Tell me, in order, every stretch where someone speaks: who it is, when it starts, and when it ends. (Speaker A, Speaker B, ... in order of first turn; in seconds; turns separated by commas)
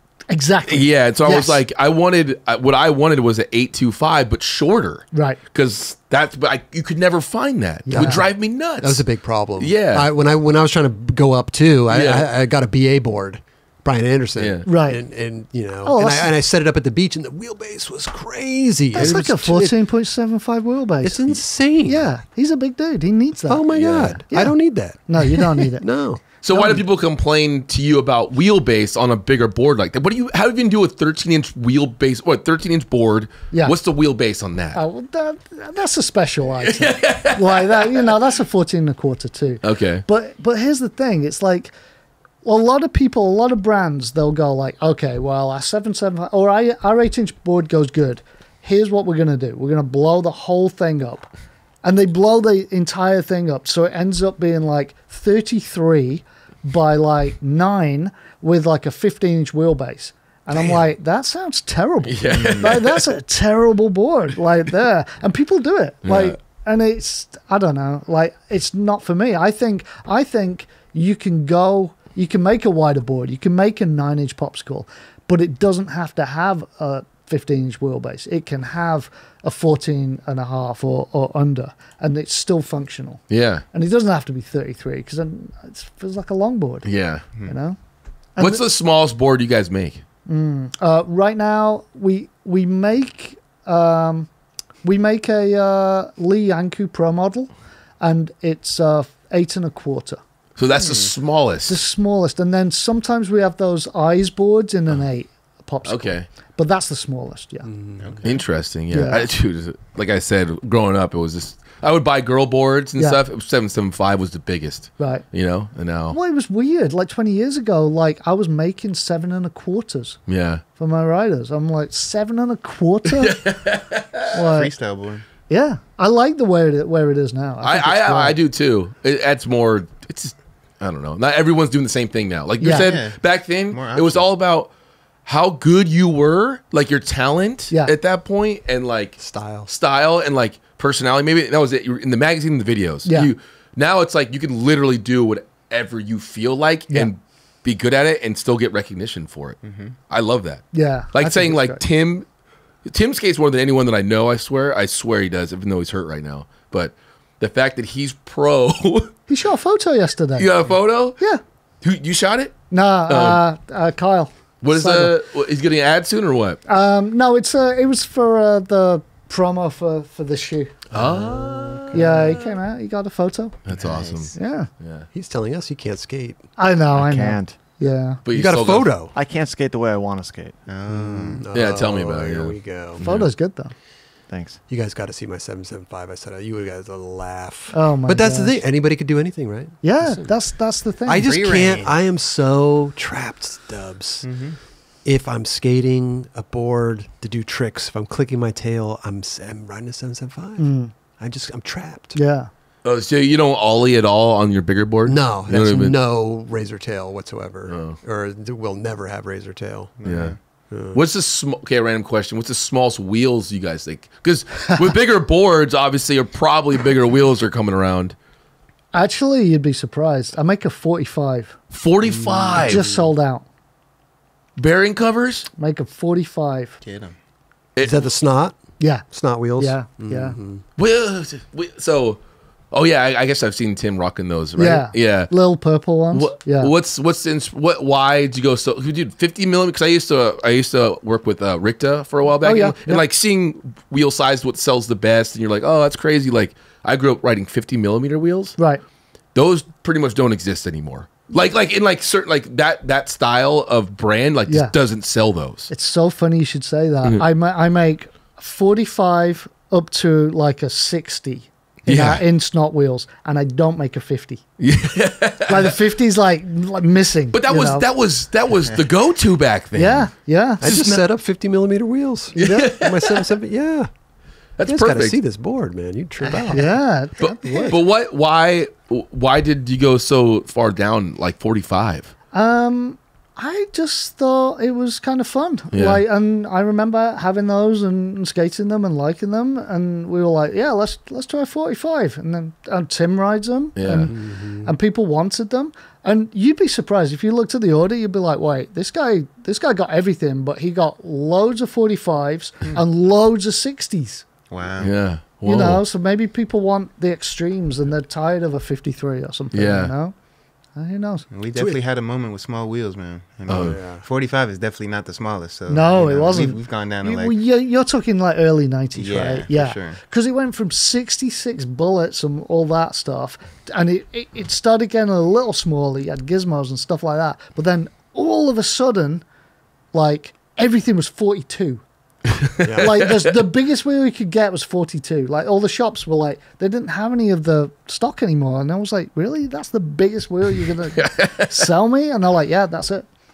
Speaker A: 0.3-1.6, Speaker B: 0.6-10.1, Speaker A: 5.1-5.4, Speaker A: 7.8-8.2, Speaker C: 7.9-19.8, Speaker B: 11.9-12.3, Speaker B: 14.3-14.7, Speaker A: 14.7-15.1, Speaker A: 15.8-16.3, Speaker A: 18.9-23.7, Speaker C: 21.0-22.1, Speaker C: 23.4-26.4, Speaker B: 23.7-24.2, Speaker A: 24.3-25.9, Speaker B: 26.4-34.8, Speaker A: 26.5-26.8, Speaker A: 33.5-33.8, Speaker A: 34.7-41.7, Speaker B: 36.6-38.1, Speaker B: 39.6-40.0, Speaker A: 42.4-51.3, Speaker A: 51.8-87.8, Speaker B: 62.0-63.1, Speaker D: 62.3-62.8, Speaker B: 66.0-66.3, Speaker B: 83.3-83.7, Speaker B: 86.8-87.3, Speaker A: 88.4-88.6, Speaker B: 88.4-90.0, Speaker A: 90.2-94.3, Speaker A: 94.8-100.2, Speaker B: 100.6-101.8, Speaker D: 100.8-101.1, Speaker A: 101.7-107.8, Speaker B: 105.8-106.3, Speaker C: 107.7-108.2, Speaker D: 108.0-108.4, Speaker B: 108.2-116.2, Speaker A: 108.9-109.3, Speaker A: 113.0-113.2, Speaker A: 115.0-115.3, Speaker A: 116.1-120.2, Speaker B: 120.3-120.6, Speaker A: 120.8-123.5, Speaker B: 123.2-124.1, Speaker D: 124.3-125.3, Speaker A: 124.3-124.7, Speaker A: 125.5-128.4, Speaker B: 127.6-134.7, Speaker A: 132.6-133.0, Speaker D: 132.7-134.3, Speaker B: 135.2-152.3, Speaker C: 139.2-139.7, Speaker A: 143.0-143.3, Speaker D: 149.6-149.9, Speaker A: 150.7-151.8, Speaker B: 152.8-159.1, Speaker A: 159.3-160.6, Speaker B: 160.3-161.2, Speaker B: 161.8-162.5, Speaker A: 162.7-165.2, Speaker B: 163.1-163.4, Speaker B: 164.6-166.6, Speaker A: 166.7-170.8, Speaker B: 170.9-172.5, Speaker C: 171.0-172.0, Speaker A: 171.9-173.7, Speaker B: 173.6-175.1, Speaker D: 173.7-174.3, Speaker A: 174.3-174.7, Speaker C: 175.1-176.5, Speaker A: 176.6-178.2, Speaker E: 176.9-177.6, Speaker B: 178.2-178.9, Speaker C: 178.3-179.1, Speaker E: 179.1-180.6, Speaker D: 180.7-181.4, Speaker C: 180.9-183.0, Speaker B: 181.5-183.3, Speaker A: 183.0-183.7, Speaker E: 184.3-184.6, Speaker C: 184.7-194.3, Speaker A: 187.7-188.6, Speaker A: 189.8-191.3, Speaker D: 191.2-192.0, Speaker D: 194.2-194.6, Speaker C: 195.0-202.2, Speaker A: 200.6-200.9, Speaker A: 202.1-202.5, Speaker B: 202.8-206.0, Speaker C: 205.1-209.9, Speaker B: 207.7-208.0, Speaker D: 210.0-210.4, Speaker B: 210.0-218.2, Speaker C: 210.7-211.0, Speaker A: 218.9-221.6, Speaker B: 221.7-222.8, Speaker D: 222.0-222.7, Speaker A: 222.6-223.4, Speaker C: 222.7-223.1, Speaker B: 224.6-225.5, Speaker A: 225.5-226.8, Speaker D: 226.8-227.2, Speaker B: 227.8-228.0, Speaker C: 227.8-230.6, Speaker A: 228.8-230.4, Speaker B: 230.8-232.2, Speaker B: 232.7-235.3, Speaker A: 234.6-236.7, Speaker B: 236.1-248.7, Speaker A: 242.4-243.0, Speaker B: 249.3-255.7, Speaker A: 254.5-254.8, Speaker A: 255.7-264.4, Speaker B: 261.9-262.2, Speaker B: 264.6-265.6, Speaker A: 265.4-267.9, Speaker B: 267.3-271.1, Speaker D: 268.5-268.9, Speaker A: 269.7-270.6, Speaker C: 270.6-273.9, Speaker A: 272.3-272.8, Speaker B: 272.4-273.2, Speaker B: 274.6-275.2, Speaker C: 274.6-276.8, Speaker A: 276.5-277.8, Speaker B: 277.2-282.1, Speaker A: 282.3-304.3, Speaker B: 285.7-286.0, Speaker B: 293.8-294.1, Speaker C: 294.1-294.7, Speaker D: 304.5-305.1, Speaker B: 304.8-305.8, Speaker A: 305.4-310.2, Speaker B: 309.5-309.9, Speaker A: 310.7-311.3, Speaker D: 311.3-317.4, Speaker B: 313.5-313.8, Speaker C: 313.5-314.0, Speaker A: 315.7-329.2, Speaker D: 318.9-320.0, Speaker A: 329.9-331.8, Speaker C: 332.6-333.0, Speaker A: 332.8-343.1, Speaker B: 341.0-341.6